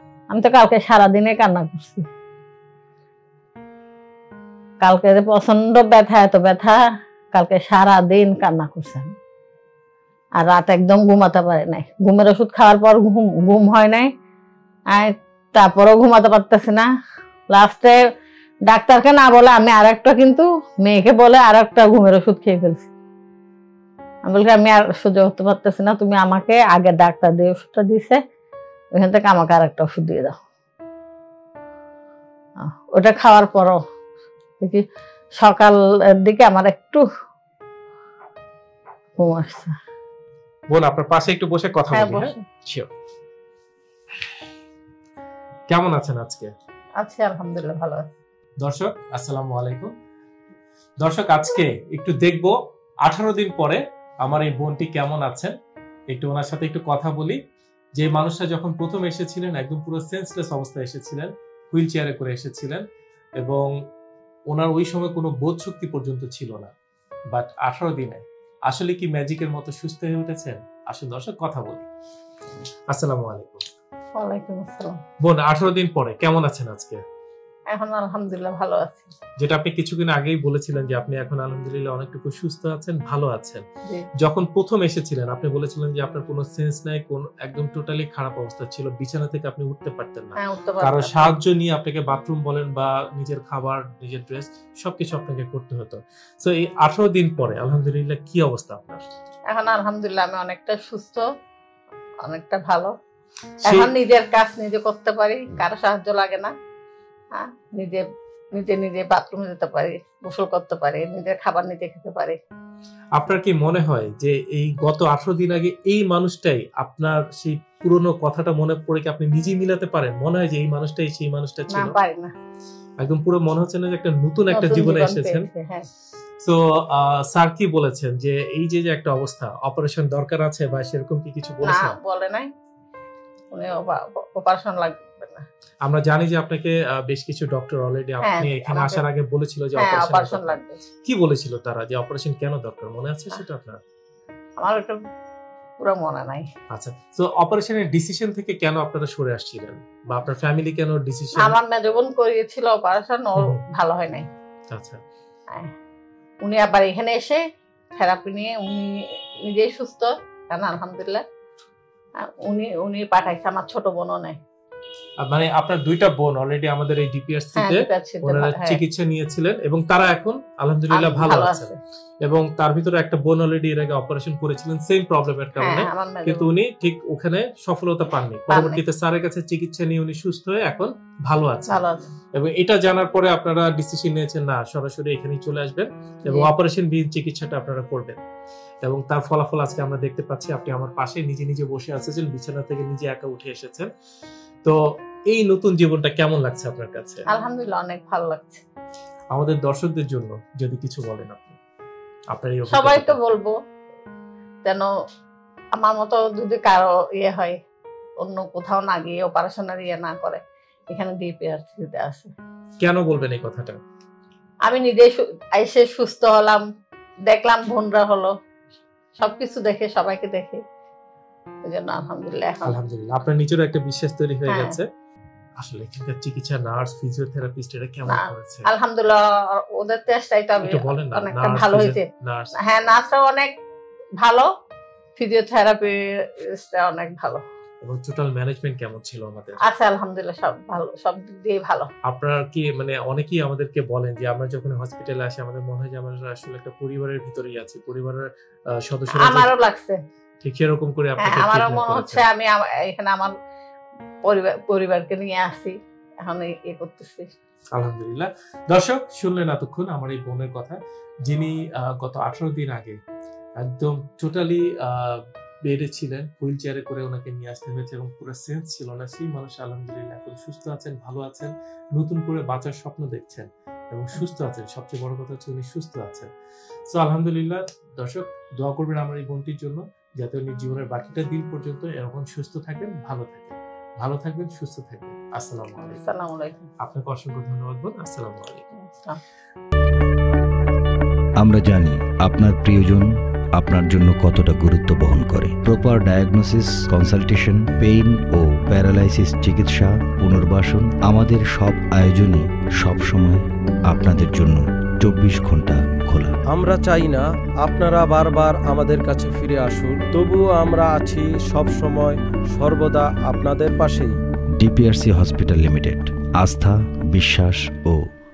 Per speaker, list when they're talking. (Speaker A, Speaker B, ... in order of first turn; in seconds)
Speaker A: 0.3-2.1, 4.8-6.8, 7.3-9.1, 10.4-14.1, 14.9-16.9, 17.5-18.0, 18.7-22.9, 24.2-28.2, 28.9-30.4, 32.6-33.8, 35.4-37.0, 39.2-39.7, 41.9-42.4, 47.0-48.1, 74.2-75.0, 77.7-79.1, 90.4-91.4, 99.5-101.2, 102.2-102.9, 103.7-106.5, 107.3-112.4, 121.7-122.3, 124.5-125.9, 131.7-132.5, 133.5-135.4, 138.2-139.0, 139.8-140.8, 144.6-145.0, 145.8-146.5, 151.4-154.3, 156.4-157.4, 158.0-161.2, 162.2-164.4, 167.6-168.8, 170.9-171.8, 175.6-176.5, 178.5-178.8, 181.7-182.1, 197.3-198.6, 202.7-203.5, 204.6-204.9, 205.7-207.5, 208.2-212.3, 214.7-216.6, 217.3-218.3, 219.2-220.6, 221.6-222.8, 224.5-224.8, 228.1-232.0, 232.6-233.5, 234.2-234.5, 235.2-237.4, 239.6-241.9, 249.1-250.0, 251.2-253.3, 254.2-257.3, 286.0-286.7, 288.7-289.2
Speaker B: 40.7-42.9, 45.7-46.5, 48.6-49.9, 51.0-55.5, 56.1-57.4, 58.0-62.8, 63.4-63.7, 64.5-66.7, 67.3-71.9, 72.9-73.6, 75.2-77.0, 79.4-83.6, 84.2-99.0, 103.6-103.9, 113.2-122.0, 123.0-125.5, 126.4-131.9, 135.8-140.5, 141.0-143.8, 146.7-151.6, 154.7-155.0, 165.2-171.7, 172.2-181.8, 182.3-188.2, 188.8-193.9, 195.3-197.2, 199.3-201.6, 202.3-203.2, 212.8-213.8, 222.7-224.8, 225.6-228.7, 230.6-232.5, 237.8-239.6, 242.1-249.5, 250.4-252.2, 257.7-263.0, 263.6-276.3, 276.9-286.0, 286.8-288.7
Speaker C: 291.4-306.4, 314.6-318.0
Speaker D: 306.5-314.1